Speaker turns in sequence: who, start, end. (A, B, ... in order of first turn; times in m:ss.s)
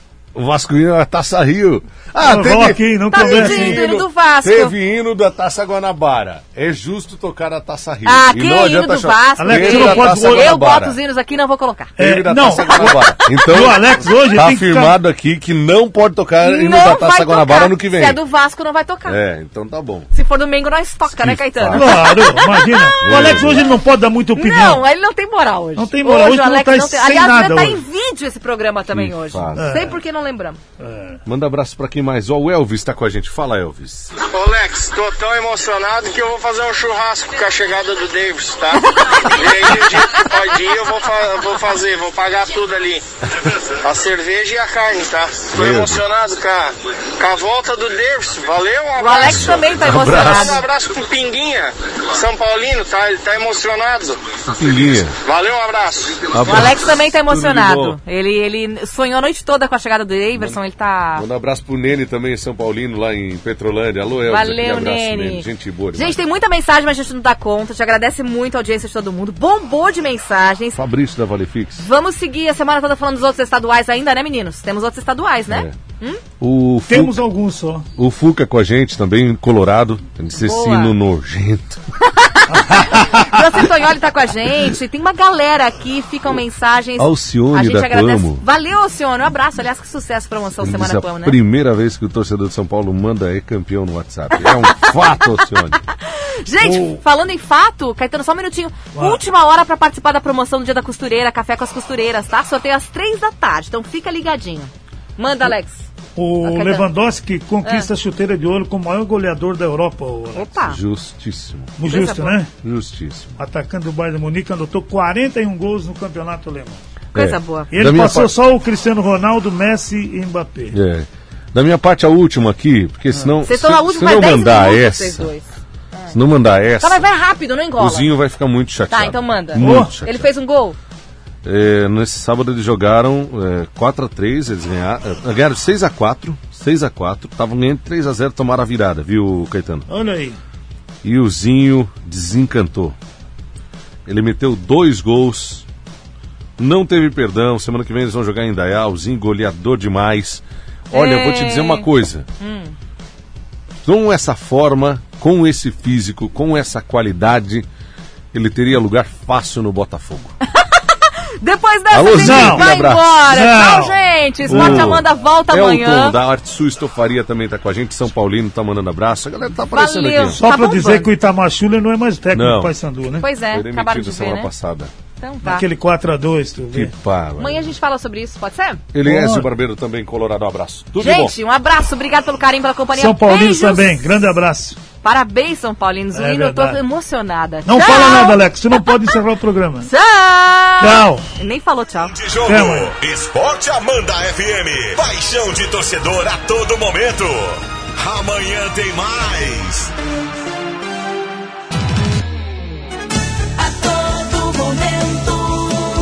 0:00.3-0:11.0 A
0:02.2-0:03.8 B
0:03.1-0:04.7 C
0:08.0-0:11.9 C
0:09.4-0:10.5 B
0:12.0-0:18.2 A
0:12.0-0:15.0 B
0:12.7-0:13.4 C
0:16.4-0:19.2 C
0:19.0-0:20.1 A
0:20.1-0:23.6 C
0:21.1-0:22.2 A
0:21.7-0:24.8 B
0:23.0-0:23.7 A
0:24.4-0:30.6 C
0:25.8-0:27.8 B
0:28.9-0:29.8 A
0:29.5-0:30.0 B
0:30.8-0:31.2 B
0:31.2-0:34.1 A
0:34.3-0:49.6 D
0:38.9-0:40.3 C
0:45.5-0:46.0 A
0:49.0-0:50.6 C
0:49.2-0:50.6 A
0:50.2-0:54.2 D
0:54.5-0:55.2 A
0:55.2-0:56.3 D
0:56.3-0:58.0 A
0:56.4-1:01.2 C
1:00.3-1:00.6 A
1:01.1-1:06.2 A
1:04.2-1:10.8 C
1:10.7-1:11.8 A
1:11.8-1:16.2 C
1:15.5-1:15.7 A
1:16.4-1:17.2 A
1:16.9-1:17.9 B
1:18.0-1:21.8 A
1:20.4-1:20.9 C
1:22.1-1:31.4 C
1:22.7-1:23.2 B
1:27.0-1:28.4 A
1:30.6-1:35.8 A
1:34.3-1:35.2 C
1:36.0-1:45.8 C
1:36.6-1:37.0 B
1:46.2-1:50.6 B
1:46.4-1:46.9 C
1:50.3-1:50.8 C
1:50.6-1:51.7 A
1:51.8-1:52.5 B
1:51.8-1:52.4 C
1:52.6-1:53.4 A
1:53.4-1:56.8 B
1:57.1-1:58.3 A
1:57.1-1:57.7 C
1:57.7-2:00.8 B
2:00.7-2:05.3 A
2:03.4-2:06.1 C
2:06.1-2:07.1 A
2:06.8-2:08.1 C
2:07.8-2:10.3 A
2:08.9-2:10.8 C
2:09.6-2:09.9 B
2:11.4-2:19.9 A
2:19.9-2:20.4 B
2:21.0-2:23.0 A
2:24.0-2:25.6 A
2:26.6-2:32.3 A
2:30.9-2:31.9 C
2:32.4-2:32.7 C
2:33.8-2:37.6 A
2:38.3-2:40.3 A
2:40.5-2:46.2 C
2:41.9-2:43.2 A
2:42.2-2:42.7 B
2:43.3-2:45.0 B
2:44.5-2:50.4 A
2:49.7-2:51.1 C
2:50.3-2:53.2 B
2:52.3-2:52.7 A
2:53.2-2:54.5 C
2:53.5-2:54.9 A
2:55.2-2:55.6 C
2:55.4-2:56.9 B
2:56.7-2:57.7 A
2:57.4-2:58.8 C
2:58.9-3:01.3 A
2:59.0-2:59.5 B
3:01.0-3:04.0 C
3:03.0-3:04.8 B
3:05.0-3:08.4 C
3:06.1-3:06.8 B
3:07.6-3:09.9 B
3:09.8-3:12.1 C
3:10.8-3:11.2 B
3:12.1-3:19.9 E
3:12.4-3:12.9 B
3:23.9-3:25.5 C